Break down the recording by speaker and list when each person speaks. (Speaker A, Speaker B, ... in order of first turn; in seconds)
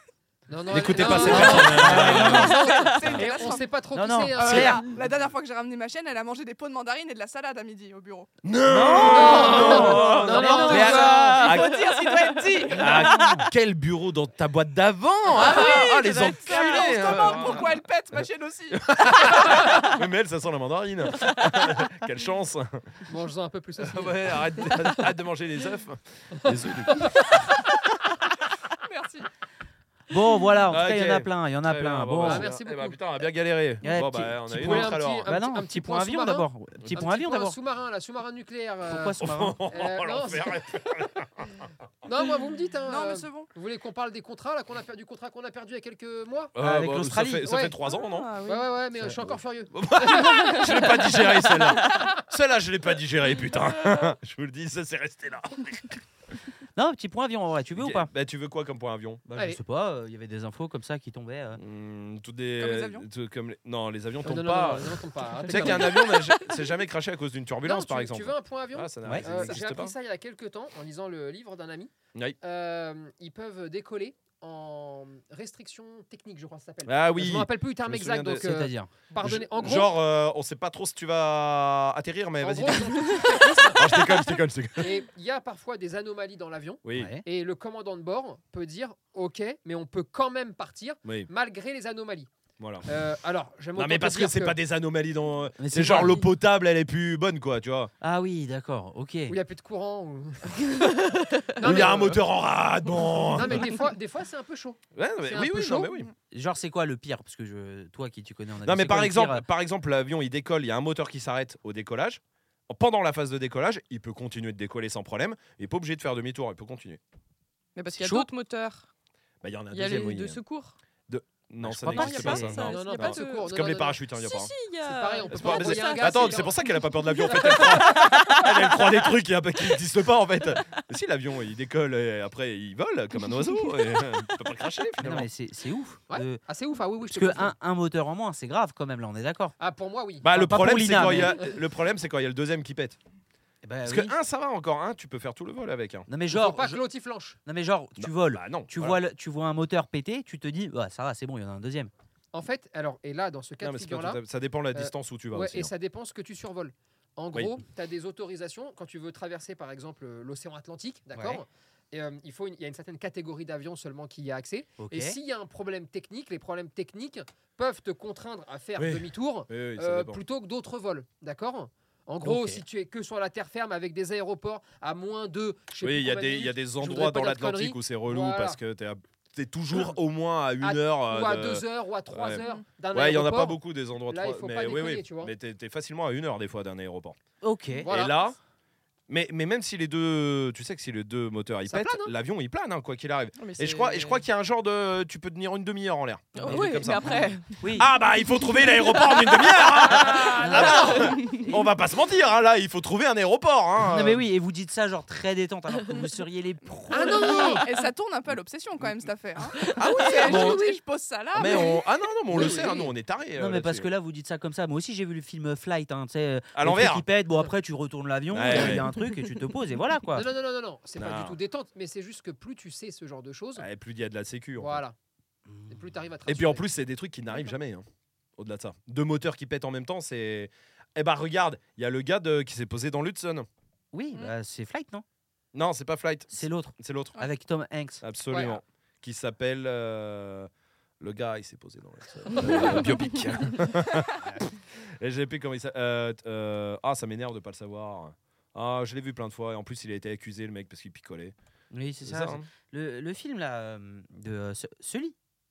Speaker A: 0.5-4.8, 9.0-11.1, 23.1-24.7, 26.9-27.4, 32.2-33.0, 34.5-39.2, 39.7-40.6, 42.0-46.5, 47.4-47.7, 48.4-50.7, 59.3-59.6, 64.2-66.2, 67.6-80.0, 82.4-84.1, 84.8-92.3, 92.8-94.6, 99.3-100.9, 101.5-102.2, 103.3-105.9, 122.5-124.0, 124.8-126.5, 127.2-127.7, 136.1-137.5, 139.6-140.3, 146.3-147.4, 152.3-154.2, 154.7-178.6, 180.6-185.3, 187.8-188.3, 191.7-192.1, 200.0-200.5, 206.9-207.6, 209.9-210.8, 212.3-212.9, 220.1-223.7, 224.6-224.9, 225.7-226.7, 238.3-238.6
Speaker B: 0.7-3.1, 8.4-11.8, 12.7-17.7, 18.7-22.9, 23.8-27.3, 30.7-35.3, 39.2-41.7, 46.5-48.3, 49.7-56.0, 57.8-59.3, 61.6-69.9, 76.8-78.5, 79.2-85.0, 86.8-87.1, 92.6-92.9, 93.7-97.9, 101.6-103.7, 104.9-106.1, 108.6-117.0, 119.4-120.4, 121.1-124.5, 125.3-135.3, 140.2-143.0, 143.8-146.1, 148.0-149.0, 153.6-155.7, 168.8-170.2, 175.8-187.2, 187.9-188.4, 189.1-204.2, 210.2-210.6, 211.3-213.9, 216.5-217.0, 218.3-218.9, 221.0-221.4, 223.6-224.8, 226.2-227.8, 228.4-233.5, 235.5-237.2, 238.0-244.3, 245.0-251.3, 252.0-252.5
Speaker C: 0.9-2.6, 3.9-4.8, 8.7-11.8, 12.8-13.4, 30.1-32.5, 33.8-37.6, 38.9-39.6, 46.6-47.6, 56.8-58.1, 59.4-61.6, 69.0-69.5, 78.4-78.9, 86.9-87.2, 95.6-96.3, 98.0-99.4, 106.3-109.5, 118.0-118.3, 121.6-122.7, 135.0-136.4, 137.1-139.6, 140.2-141.4, 143.6-144.2, 146.1-146.8, 147.4-151.9, 161.1-161.4, 164.8-165.2, 172.2-172.6, 187.4-187.9, 196.4-197.9, 200.4-201.7, 203.8-207.6, 213.3-220.3, 225.5-225.8, 233.9-235.0, 236.3-238.0, 251.7-255.1
Speaker D: 1.3-3.0, 9.4-13.4, 15.3-17.6, 47.9-48.7, 50.2-50.7, 51.8-52.1, 100.7-101.5, 117.7-118.9, 119.7-120.8, 121.8-123.5, 124.1-126.5, 127.2-128.9, 130.6-130.8, 133.3-134.3, 193.4-194.2, 196.3-201.5, 207.0-207.8, 209.6-210.5, 218.8-219.0, 242.4-242.8
Speaker E: 1.8-3.6, 4.4-8.3, 11.4-12.7, 15.3-19.3, 28.8-29.3, 42.9-43.5, 62.6-63.0, 207.0-211.8